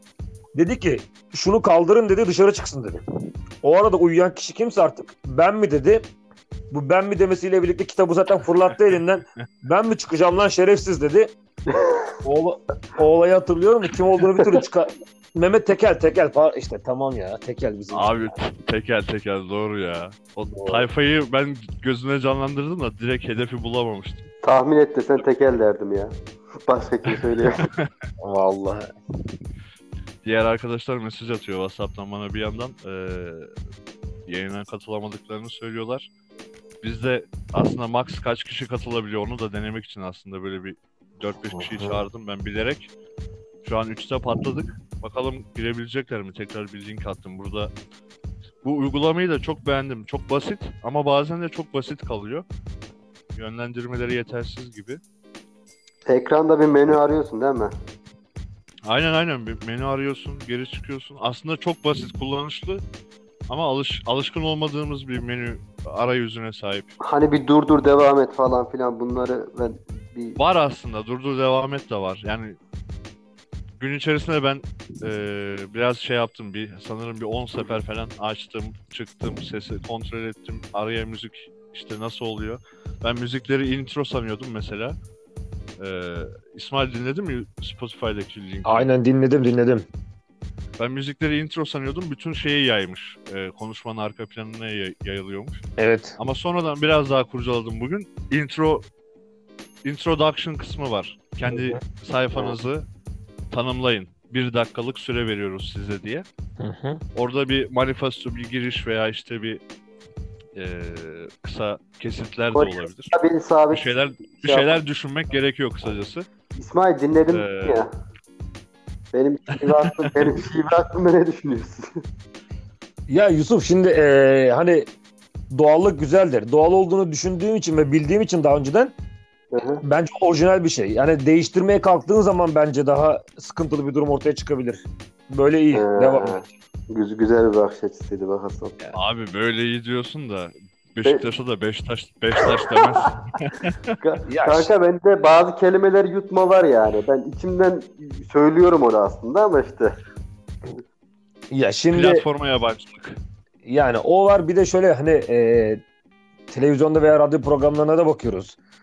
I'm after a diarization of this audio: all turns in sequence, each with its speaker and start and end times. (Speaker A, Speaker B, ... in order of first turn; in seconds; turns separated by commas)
Speaker A: 0.6-3.0, Speaker A: 3.6-6.1, Speaker A: 6.7-11.3, Speaker B: 11.7-12.0, Speaker A: 12.2-18.3, Speaker B: 14.3-14.6, Speaker C: 17.9-24.3, Speaker A: 20.5-20.9, Speaker B: 24.4-26.1, Speaker B: 26.7-27.7, Speaker A: 28.2-28.9, Speaker C: 30.2-33.5, Speaker C: 34.3-36.1, Speaker C: 36.8-42.9, Speaker A: 41.5-42.0, Speaker C: 43.6-47.7, Speaker C: 48.6-52.4, Speaker C: 53.4-55.0, Speaker B: 56.1-57.7, Speaker C: 58.9-62.8, Speaker C: 63.5-66.9, Speaker B: 67.0-70.4, Speaker C: 70.4-72.6, Speaker C: 73.8-85.0, Speaker C: 85.8-88.9, Speaker A: 88.7-89.9, Speaker C: 90.8-95.6, Speaker A: 95.8-96.2, Speaker C: 96.2-98.9, Speaker C: 99.8-102.8, Speaker A: 101.5-101.8, Speaker C: 103.5-106.3, Speaker A: 106.6-107.0, Speaker C: 107.2-109.6, Speaker C: 110.6-113.1, Speaker B: 112.5-114.8, Speaker C: 113.7-116.3, Speaker B: 116.6-117.9, Speaker C: 117.3-117.9, Speaker B: 119.1-122.0, Speaker C: 119.9-120.2, Speaker A: 123.1-124.9, Speaker A: 125.5-128.9, Speaker B: 129.5-129.8, Speaker A: 129.8-136.5, Speaker B: 135.7-138.8, Speaker C: 138.9-144.0, Speaker B: 142.7-143.0, Speaker B: 144.0-149.9, Speaker A: 144.3-144.7, Speaker A: 151.5-152.2, Speaker C: 151.9-153.2, Speaker A: 153.6-155.8, Speaker A: 156.5-158.6